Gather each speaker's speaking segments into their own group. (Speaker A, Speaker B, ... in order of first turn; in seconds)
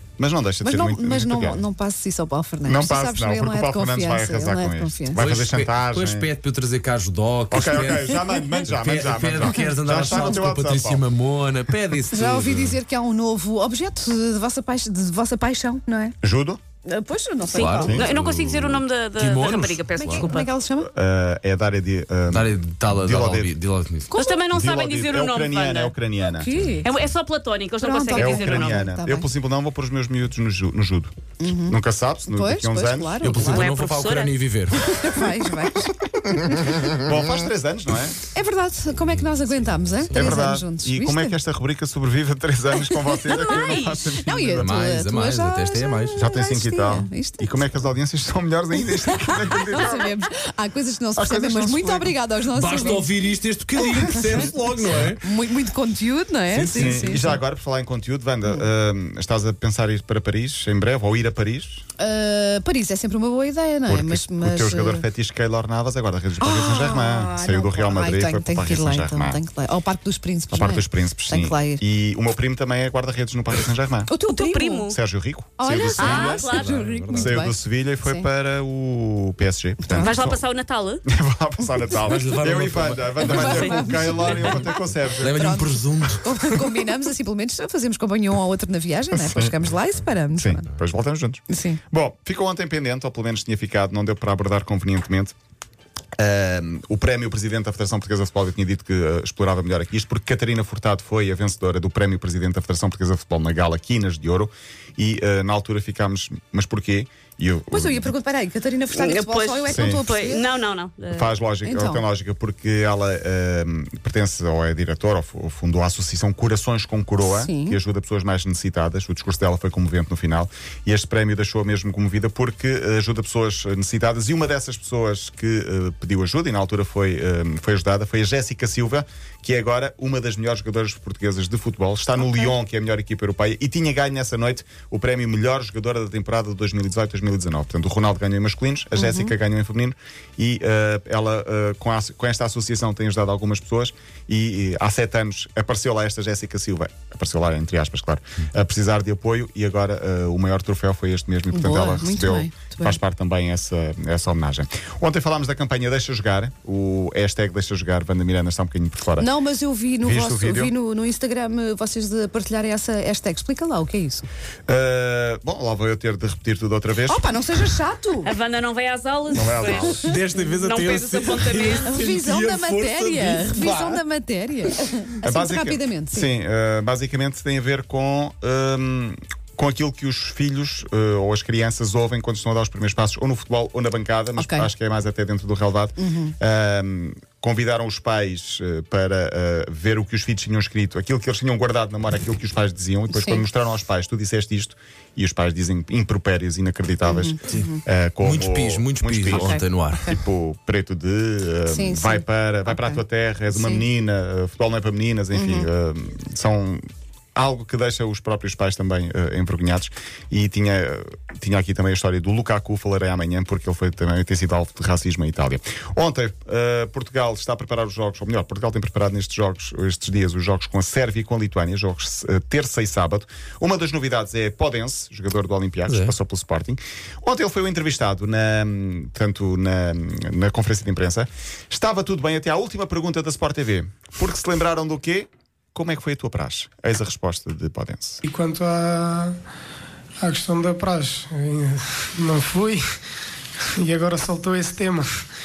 Speaker A: 0.2-1.6, 2.6-6.3, 7.5-11.1, 16.2-16.6, 20.8-23.5, 24.5-26.5, 28.1-31.1, 31.7-33.2, 36.9-38.2, 40.1-44.8, 46.2-50.2, 51.2-52.1, 56.7-61.9, 63.9-69.4, 70.5-74.1, 74.9-76.5, 77.2-80.5, 81.1-85.5, 89.2-89.5, 90.4-95.3, 96.2-108.1, 109.7-110.0, 111.1-159.3, 160.0-160.7, 164.7-167.3, 169.3-170.1, 175.2-238.2
Speaker B: 0.6-5.2, 10.1-10.4, 12.1-16.1, 16.9-18.0, 20.0-20.9, 24.1-24.4, 26.3-26.9, 27.8-29.3, 31.4-33.7, 34.8-36.8, 38.3-41.4, 42.9-47.8, 49.0-53.1, 53.8-57.4, 62.0-65.1, 66.4-71.8, 74.1-74.9, 75.6-78.3, 79.8-80.2, 83.2-90.7, 91.5-91.8, 107.7-110.5, 111.6-112.0, 117.2-117.8, 138.9-139.3, 151.5-153.0, 159.2-164.2, 167.1-168.3, 171.9-176.3, 184.4-184.7, 186.0-186.3, 193.1-193.4, 197.0-197.8, 199.3-200.2, 201.7-203.8, 205.3-205.7
Speaker C: 5.2-12.8, 17.6-20.3, 22.3-24.1, 33.2-34.9, 38.9-40.4, 44.6-46.2, 52.5-55.2, 56.5-57.0, 76.5-77.4, 82.0-84.6, 85.2-86.8, 169.7-174.0, 198.2-200.1, 225.9-226.1
Speaker D: 17.5-20.5, 24.1-25.9, 26.9-28.8, 33.4-34.4, 43.4-44.0, 74.2-75.0, 76.0-76.8, 80.0-81.0, 83.4-83.8, 108.9-111.3, 168.2-172.0
Speaker E: 238.2-239.4, 240.2-242.8, 243.8-245.2